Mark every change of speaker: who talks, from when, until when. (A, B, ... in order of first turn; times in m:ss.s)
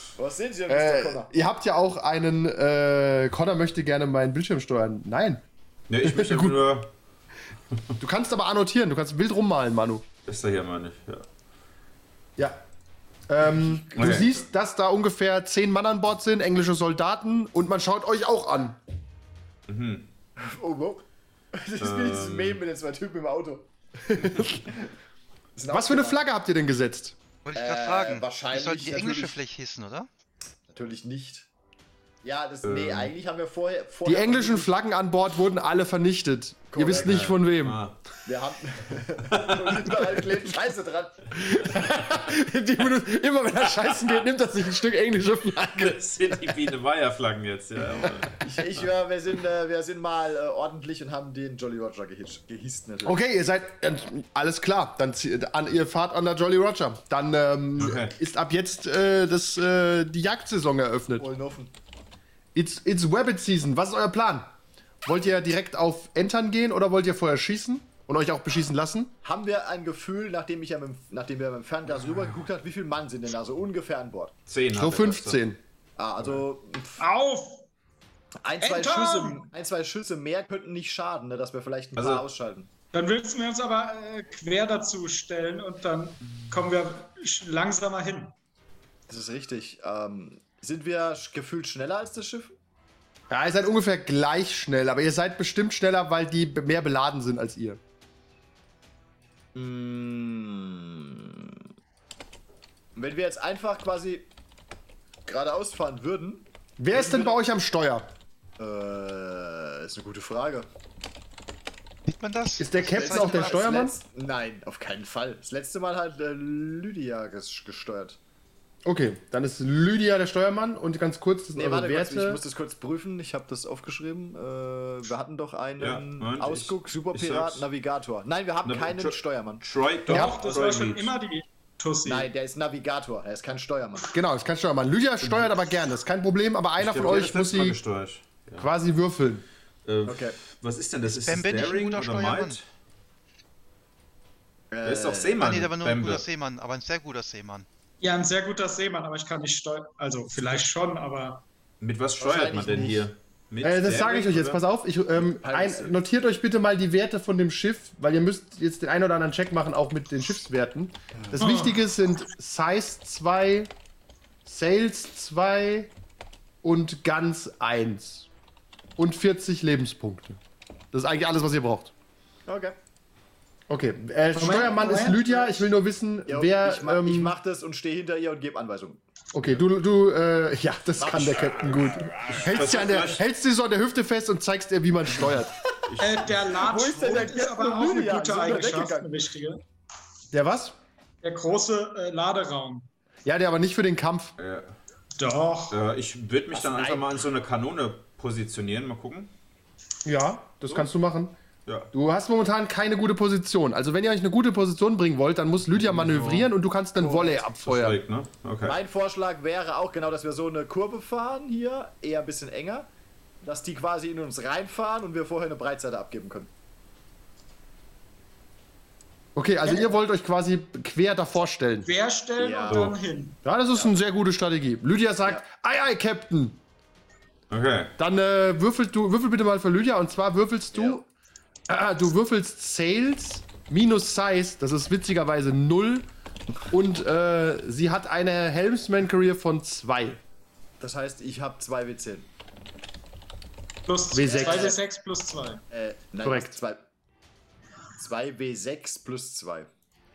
0:00.2-0:01.3 A
0:00.7-0:05.4 B
0:05.9-0:06.9 C
0:06.0-0:06.7 B
0:08.0-0:10.0 B
0:10.2-0:11.2 C
0:13.3-0:18.8 B
0:13.6-0:14.3 A
0:14.0-0:14.3 C
0:19.7-0:20.1 C
0:20.4-0:24.9 A
0:21.8-0:22.6 C
0:24.1-0:24.6 B
0:25.5-0:26.2 A
0:25.7-0:27.2 B
0:27.4-0:30.1 D
0:27.5-0:29.4 A
0:30.7-0:31.5 A
0:32.2-0:34.7 A
0:32.6-0:33.1 C
0:34.0-0:37.8 B
0:36.7-0:37.4 A
0:36.9-0:38.0 C
0:38.2-0:41.3 A
0:39.3-0:40.1 C
0:41.3-0:46.0 B
0:45.8-0:48.4 C
0:48.4-0:53.2 A
0:53.0-1:01.3 B
0:57.8-0:58.1 C
1:01.2-1:01.7 A
1:02.5-1:04.5 B
1:05.0-1:09.1 B
1:09.2-1:14.3 A
1:14.5-1:15.4 C
1:14.7-1:15.6 B
1:16.0-1:17.0 A
1:17.0-1:17.7 E
1:18.4-1:22.7 A
1:18.6-1:19.5 E
1:22.0-1:22.2 C
1:22.9-1:28.3 E
1:29.1-1:32.5 A
1:33.3-1:37.8 B
1:39.5-1:41.6 A
1:42.9-1:44.3 A
1:45.2-1:47.3 A
1:46.8-1:48.1 B
1:48.6-1:50.7 A
1:52.1-1:53.6 D
1:52.6-1:54.0 B
1:52.8-1:58.2 A
1:58.8-2:02.4 B
2:01.6-2:09.6 A
2:05.8-2:07.7 C
2:08.6-2:11.1 C
2:10.1-2:12.3 E
2:10.1-2:10.4 B
2:12.0-2:14.1 A
2:14.1-2:17.8 B
2:16.8-2:18.7 C
2:18.6-2:19.4 B
2:19.8-2:22.6 C
2:20.0-2:20.4 A
2:21.1-2:22.6 D
2:24.7-2:25.4 A
2:24.8-2:26.2 C
2:25.4-2:27.7 D
2:28.0-2:31.4 E
2:31.8-2:34.6 C
2:32.2-2:33.1 A
2:33.6-2:43.7 B
2:35.2-2:36.0 A
2:41.4-2:41.8 E
2:44.4-2:45.9 B
2:46.6-2:48.3 B
2:49.0-2:50.4 B
2:50.9-2:51.9 B
2:52.4-2:52.8 A
2:53.7-2:57.4 B
2:54.3-2:55.6 E
2:56.3-2:59.0 A
2:59.3-3:05.6 B
3:01.0-3:02.7 A
3:02.3-3:03.2 C
3:05.9-3:06.5 C
3:06.0-3:09.6 E
3:06.5-3:09.2 A
3:10.3-3:10.8 B
3:11.2-3:12.9 E
3:13.2-3:14.3 B
3:14.4-3:14.7 C
3:15.2-3:15.8 E
3:15.7-3:19.3 C
3:16.5-3:17.1 A
3:20.0-3:21.4 B
3:21.6-3:21.9 C
3:21.9-3:28.0 B
3:25.7-3:26.5 C
3:27.0-3:27.4 A
3:27.6-3:28.8 C
3:28.6-3:32.9 A
3:33.4-3:36.5 A
3:39.3-3:41.9 B
3:41.8-3:43.4 E
3:42.4-3:43.0 A
3:42.7-3:42.9 C
3:43.4-3:46.6 B
3:47.5-3:47.9 C
3:48.0-3:51.0 B
3:50.7-3:51.0 A
3:51.7-3:56.1 B
3:56.7-4:00.2 B
4:00.8-4:02.3 A
4:03.9-4:05.6 E
4:04.1-4:04.7 B
4:04.2-4:04.8 A
4:05.7-4:06.8 A
4:06.2-4:06.6 B
4:08.0-4:09.7 A